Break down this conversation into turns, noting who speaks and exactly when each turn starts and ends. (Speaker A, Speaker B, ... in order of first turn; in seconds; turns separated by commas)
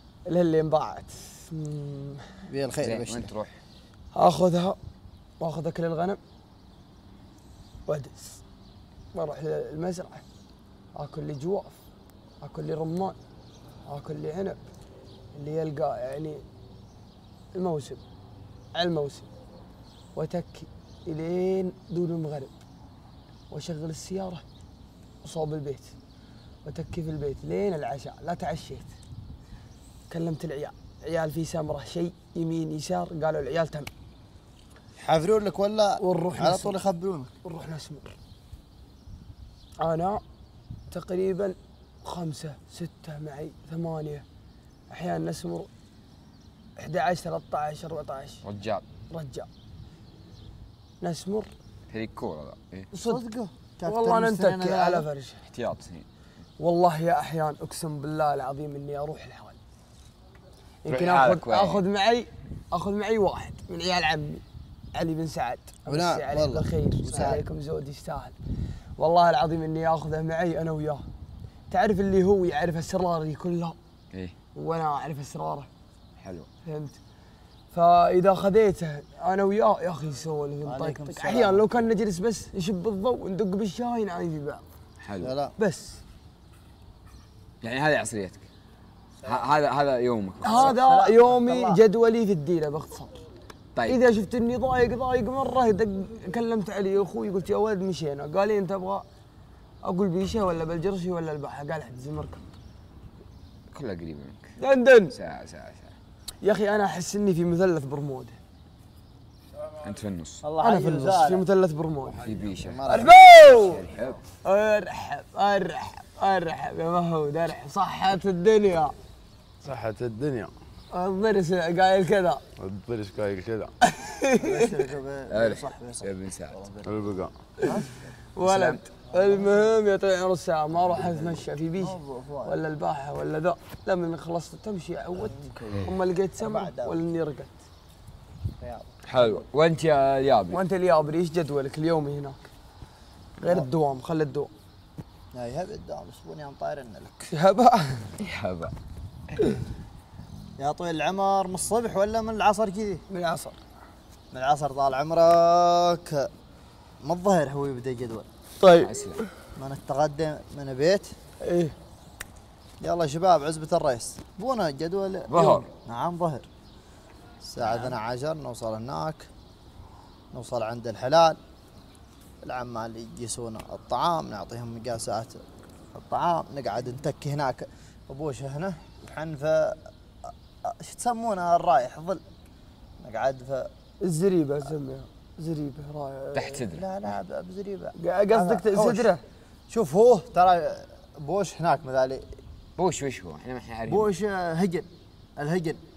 Speaker A: 0.3-2.2, Speaker B: 2.5-3.3, Speaker C: 2.8-3.6, Speaker A: 4.1-4.8, Speaker A: 5.4-6.2, Speaker A: 7.9-8.4, Speaker A: 9.1-10.2, Speaker A: 10.9-11.8, Speaker A: 12.4-13.2, Speaker A: 13.9-14.6, Speaker A: 15.3-16.4, Speaker A: 17.5-18.0, Speaker A: 18.8-19.3, Speaker A: 20.1-22.5, Speaker A: 23.5-24.4, Speaker A: 25.2-25.9, Speaker A: 26.6-28.9, Speaker A: 30.1-33.9, Speaker B: 35.0-37.3, Speaker A: 36.0-36.8, Speaker A: 37.4-38.1, Speaker A: 39.8-40.2, Speaker A: 40.9-44.2, Speaker A: 44.9-45.7, Speaker A: 46.8-48.4, Speaker C: 48.4-48.9, Speaker A: 49.1-49.5, Speaker A: 51.0-51.5, Speaker C: 51.9-52.9, Speaker A: 52.9-53.2, Speaker B: 53.0-55.1, Speaker A: 53.9-55.4, Speaker C: 55.5-56.1, Speaker A: 56.6-59.6, Speaker A: 60.8-64.4, Speaker C: 60.9-61.8, Speaker A: 64.9-68.3, Speaker B: 65.9-67.4, Speaker A: 69.0-71.0, Speaker A: 71.7-73.8, Speaker A: 74.5-75.7, Speaker C: 76.2-76.5, Speaker A: 76.6-77.0, Speaker A: 77.7-84.6, Speaker B: 80.6-81.7, Speaker C: 85.0-85.3, Speaker B: 85.2-85.5, Speaker A: 85.6-86.0, Speaker C: 87.6-88.4, Speaker C: 89.2-90.8, Speaker A: 90.4-93.2, Speaker B: 90.5-91.8, Speaker C: 93.7-94.0, Speaker A: 93.9-99.0, Speaker A: 99.8-102.4, Speaker C: 103.7-104.5, Speaker A: 104.6-105.1, Speaker C: 105.1-106.0, Speaker A: 106.4-108.4, Speaker C: 109.8-110.4, Speaker B: 110.4-111.4, Speaker A: 110.6-112.2, Speaker C: 112.1-114.2, Speaker B: 112.2-113.7, Speaker A: 112.9-113.8, Speaker A: 114.4-118.9, Speaker D: 119.6-120.5, Speaker A: 120.9-122.4, Speaker D: 122.6-123.7, Speaker A: 123.8-124.6, Speaker B: 124.4-128.0, Speaker C: 125.3-126.6, Speaker D: 126.8-127.3, Speaker A: 128.3-137.6, Speaker C: 128.4-128.8, Speaker B: 129.1-129.6, Speaker C: 130.7-131.4, Speaker B: 131.8-132.6, Speaker B: 135.2-137.0, Speaker B: 138.6-139.4, Speaker C: 139.1-140.6, Speaker A: 140.5-142.4, Speaker B: 143.4-143.7, Speaker A: 143.4-144.5, Speaker B: 145.3-147.3, Speaker A: 147.3-148.1, Speaker C: 148.2-148.7, Speaker B: 150.6-153.0, Speaker A: 153.1-153.6, Speaker B: 154.3-156.3, Speaker B: 157.0-158.2, Speaker A: 158.6-158.9, Speaker C: 158.7-159.2, Speaker B: 159.6-161.1, Speaker A: 161.4-161.7, Speaker B: 162.8-166.4, Speaker C: 165.3-165.7, Speaker B: 167.4-169.3, Speaker B: 170.3-171.4, Speaker B: 172.4-179.8, Speaker B: 180.6-182.2, Speaker B: 183.0-183.7, Speaker A: 184.0-186.6, Speaker C: 186.3-187.2, Speaker B: 186.7-189.1, Speaker A: 188.0-189.2, Speaker B: 189.7-192.3, Speaker C: 192.8-194.1, Speaker B: 193.9-195.8